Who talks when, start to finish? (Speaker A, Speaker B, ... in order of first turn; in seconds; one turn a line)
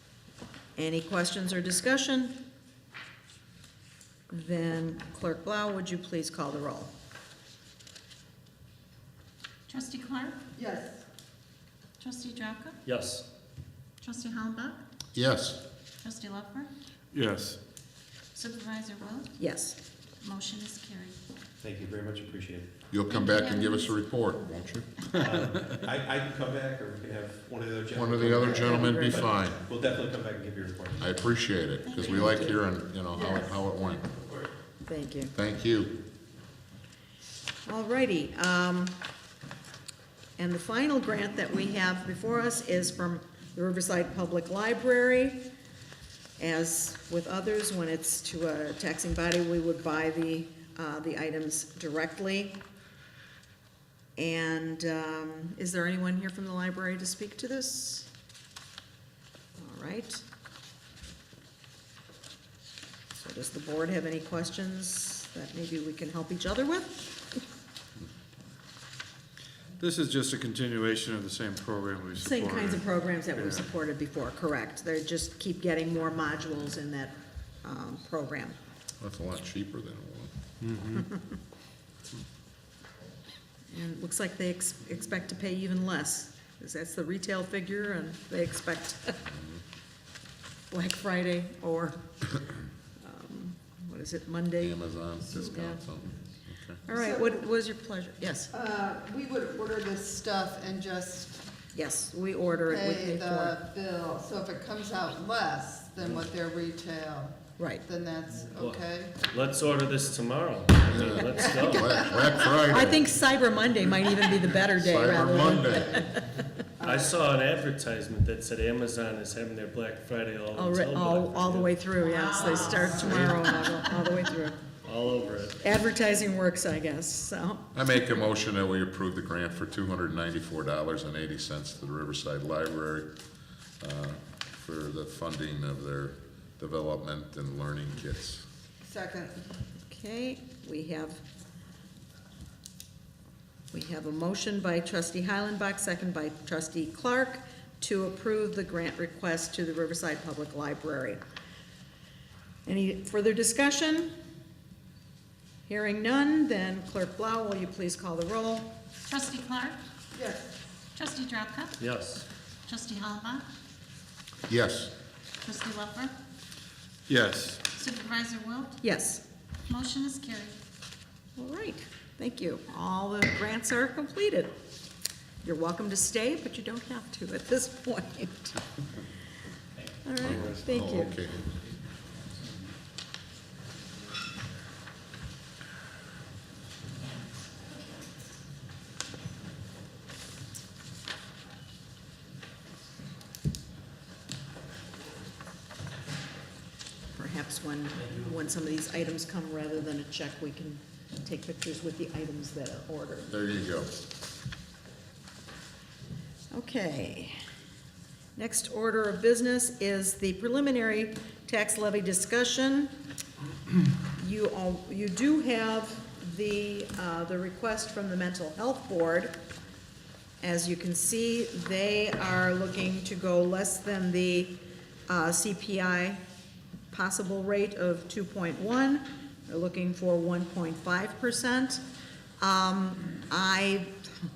Speaker A: 0.8-2.4
Speaker A: 4.3-6.9
Speaker B: 9.7-10.3
Speaker C: 10.6-11.0
Speaker B: 12.0-12.8
Speaker D: 12.8-13.2
Speaker B: 14.0-14.8
Speaker E: 15.1-15.6
Speaker B: 16.0-16.7
Speaker F: 17.1-17.6
Speaker B: 18.3-19.4
Speaker A: 19.4-19.8
Speaker B: 20.2-21.1
Speaker G: 21.6-22.7
Speaker E: 22.9-24.9
Speaker B: 23.1-23.9
Speaker G: 25.1-31.2
Speaker E: 27.9-29.6
Speaker A: 28.6-29.3
Speaker E: 31.0-34.1
Speaker B: 31.8-32.6
Speaker A: 34.8-35.3
Speaker E: 35.3-36.0
Speaker A: 37.6-39.0
Speaker A: 40.4-45.4
Speaker A: 46.4-52.6
Speaker A: 54.1-58.1
Speaker A: 59.6-60.2
Speaker A: 63.1-67.4
Speaker F: 69.8-73.7
Speaker A: 72.2-78.6
Speaker E: 79.0-80.3
Speaker F: 80.7-81.0
Speaker A: 81.0-81.3
Speaker A: 83.7-89.2
Speaker E: 89.3-89.6
Speaker A: 90.7-92.0
Speaker A: 93.0-94.8
Speaker E: 94.6-96.8
Speaker A: 95.4-95.8
Speaker A: 96.8-98.5
Speaker C: 96.9-97.4
Speaker C: 98.5-101.4
Speaker A: 101.7-103.6
Speaker C: 102.7-109.2
Speaker A: 107.6-107.8
Speaker D: 108.5-111.9
Speaker E: 110.9-113.1
Speaker C: 111.6-112.2
Speaker A: 112.6-116.5
Speaker E: 114.5-116.0
Speaker C: 116.8-117.1
Speaker D: 116.8-123.5
Speaker A: 120.5-124.6
Speaker D: 124.8-125.6
Speaker A: 125.6-127.7
Speaker E: 127.7-133.1
Speaker E: 133.8-138.4
Speaker C: 138.8-139.3
Speaker A: 139.9-141.2
Speaker A: 143.7-151.2
Speaker A: 152.6-154.1
Speaker A: 155.7-158.7
Speaker B: 159.1-159.8
Speaker C: 160.1-160.5
Speaker B: 160.9-161.8
Speaker D: 161.8-162.2
Speaker B: 162.7-163.4
Speaker E: 164.5-164.9
Speaker B: 165.4-166.1
Speaker F: 167.1-167.6
Speaker B: 167.7-168.8
Speaker A: 168.8-169.2
Speaker B: 169.7-170.6
Speaker A: 171.4-174.5
Speaker A: 175.4-178.6
Speaker A: 180.0-181.1
Speaker E: 180.2-181.5
Speaker A: 197.1-203.4
Speaker E: 203.3-203.9
Speaker A: 206.5-207.3
Speaker A: 208.3-212.9
Speaker A: 214.1-219.3
Speaker A: 220.4-226.2
Speaker A: 226.9-231.8
Speaker A: 232.4-234.0